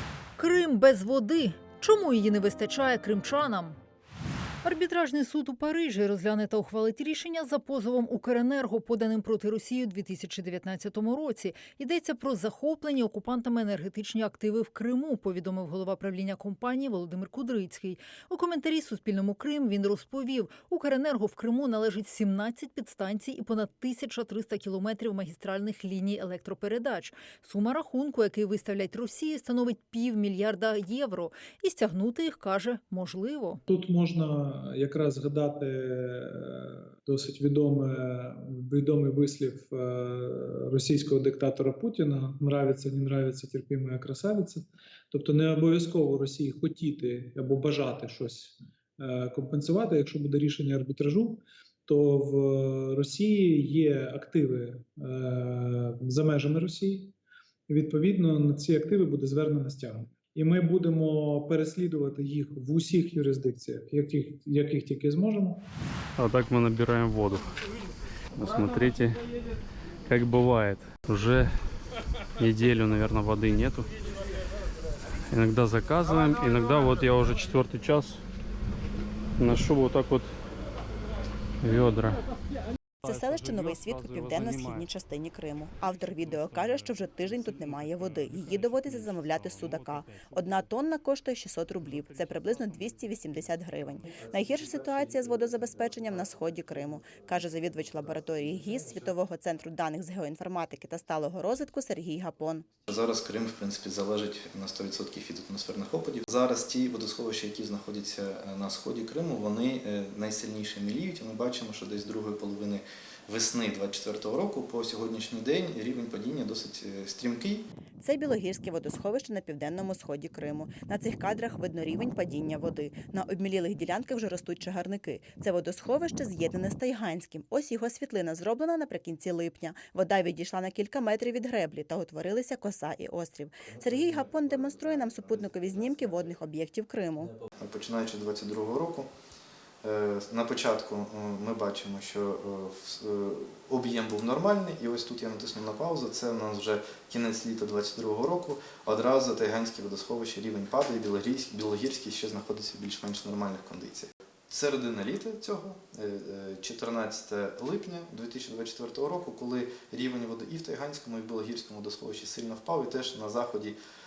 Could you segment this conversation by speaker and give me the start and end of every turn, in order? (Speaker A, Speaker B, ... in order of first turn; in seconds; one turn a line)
Speaker A: 0.4-3.8
Speaker A: 4.6-33.6
Speaker B: 33.7-57.1
Speaker B: 57.7-65.6
Speaker C: 66.2-67.5
Speaker C: 68.3-69.2
Speaker C: 70.0-71.5
Speaker C: 72.4-73.9
Speaker C: 75.3-78.2
Speaker C: 79.4-80.3
Speaker C: 81.6-82.2
Speaker D: 83.0-102.7
Speaker C: 83.0-84.8
Speaker E: 102.9-117.7
Speaker D: 118.0-137.3
Speaker E: 137.6-139.1
Speaker E: 139.8-163.8